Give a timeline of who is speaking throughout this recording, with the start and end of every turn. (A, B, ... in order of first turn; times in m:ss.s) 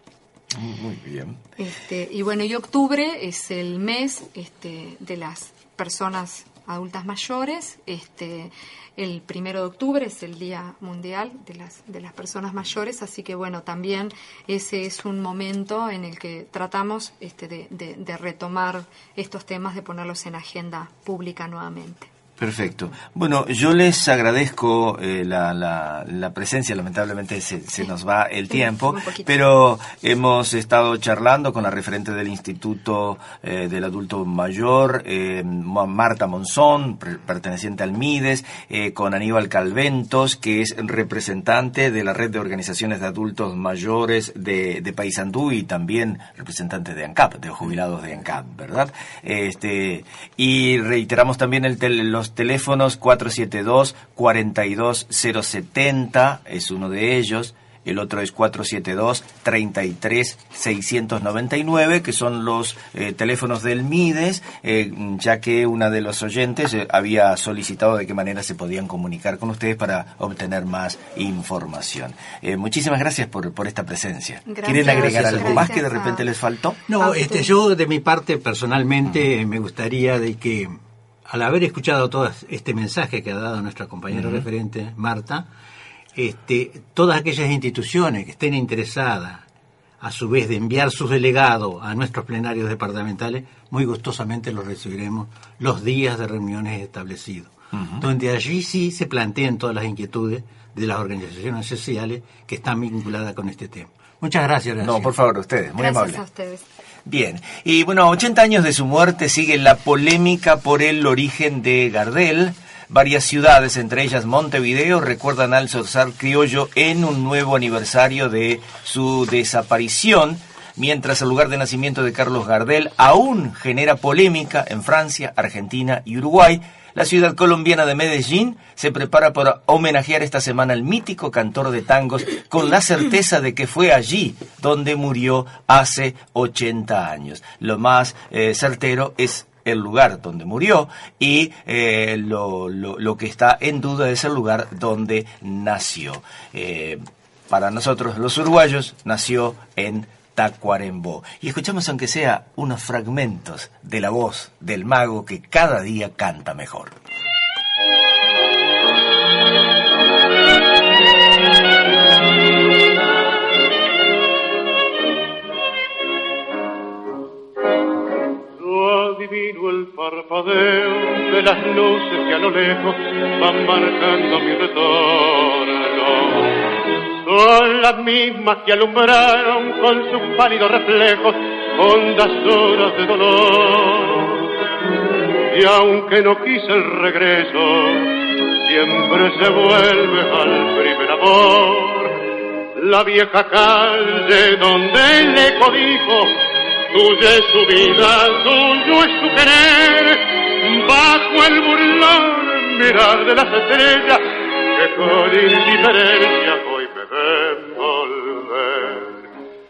0:00.6-0:01.4 A
0:01.6-0:22.1 B
0:22.4-1:16.8 A
0:28.5-0:29.4 B
1:14.5-1:16.3 B
1:14.8-1:15.7 C
1:16.9-1:25.5 C
1:17.0-1:17.5 B
1:24.1-1:24.5 A
1:26.2-1:29.5 C
1:30.0-1:45.2 C
1:37.7-1:38.1 A
1:44.8-1:46.2 A
1:45.8-1:46.6 B
1:47.1-2:37.0 A
2:48.6-2:56.7 D
2:57.2-3:04.4 D
3:05.5-3:08.1 D
3:08.7-3:12.2 D
3:12.8-3:16.4 D
3:16.9-3:24.2 D
3:24.7-3:29.2 D